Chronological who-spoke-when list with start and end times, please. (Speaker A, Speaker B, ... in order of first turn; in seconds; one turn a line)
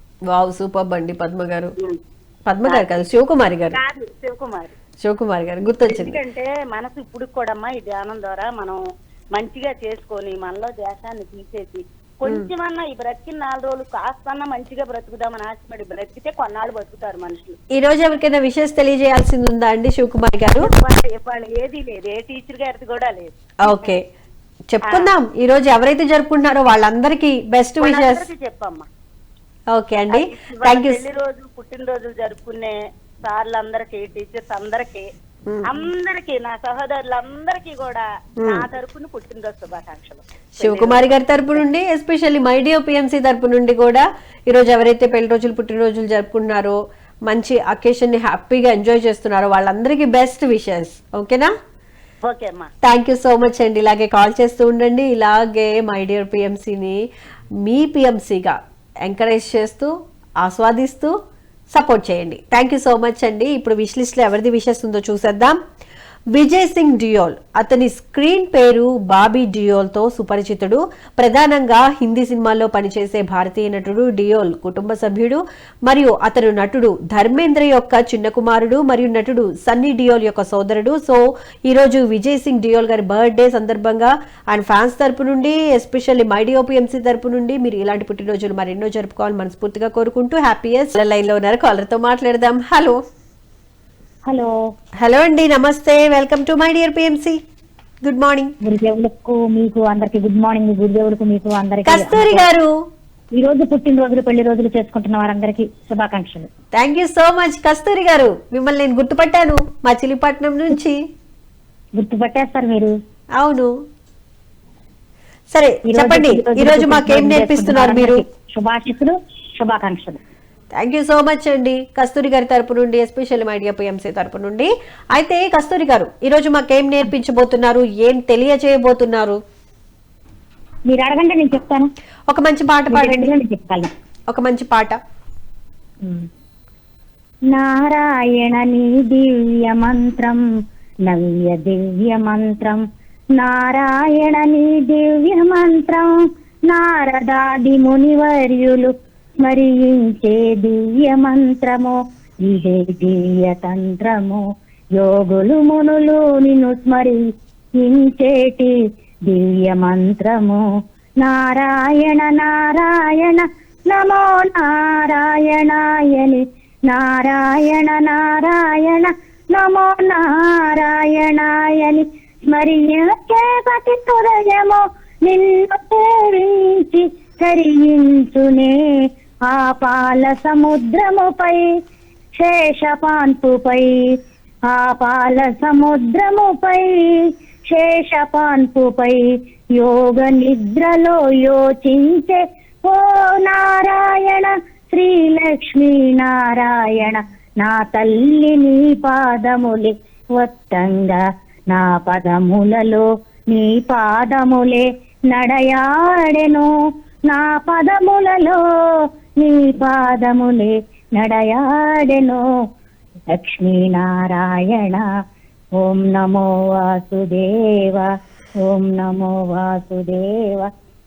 Speaker A: 0.3-1.7
Speaker A: 2.5-3.8
Speaker B: 3.7-4.7
Speaker A: 5.0-6.2
Speaker B: 5.9-8.8
Speaker B: 9.3-17.6
Speaker A: 17.8-20.7
Speaker B: 20.6-23.9
Speaker A: 23.6-24.0
Speaker A: 24.7-28.3
Speaker B: 27.8-28.9
Speaker A: 29.7-31.0
Speaker B: 30.1-35.1
Speaker A: 35.5-35.8
Speaker B: 35.7-41.1
Speaker A: 40.6-46.8
Speaker A: 47.3-51.5
Speaker B: 52.2-52.7
Speaker A: 52.8-57.0
Speaker A: 57.6-59.9
Speaker A: 60.4-61.1
Speaker A: 61.7-65.6
Speaker A: 66.3-93.0
Speaker A: 95.0-97.4
Speaker A: 98.0-98.5
Speaker C: 98.7-102.4
Speaker A: 101.8-102.7
Speaker C: 103.3-106.5
Speaker A: 106.8-111.0
Speaker C: 112.0-112.9
Speaker A: 113.4-113.7
Speaker A: 115.5-118.2
Speaker C: 115.9-120.2
Speaker A: 120.8-129.4
Speaker C: 130.9-131.9
Speaker A: 132.3-133.3
Speaker C: 132.9-133.9
Speaker A: 134.3-135.0
Speaker C: 137.5-140.4
Speaker C: 141.1-142.8
Speaker C: 143.4-146.1
Speaker C: 146.7-148.9
Speaker C: 149.4-154.4
Speaker C: 155.0-157.2
Speaker C: 157.8-158.7
Speaker C: 159.3-160.6
Speaker C: 161.2-178.8
Speaker C: 179.5-181.7
Speaker C: 182.4-184.0
Speaker C: 184.7-187.1
Speaker C: 187.7-189.2
Speaker C: 189.8-201.2
Speaker C: 201.7-206.7
Speaker C: 207.3-208.6
Speaker C: 209.4-212.4
Speaker C: 213.3-215.0
Speaker C: 215.8-218.1
Speaker C: 218.6-220.7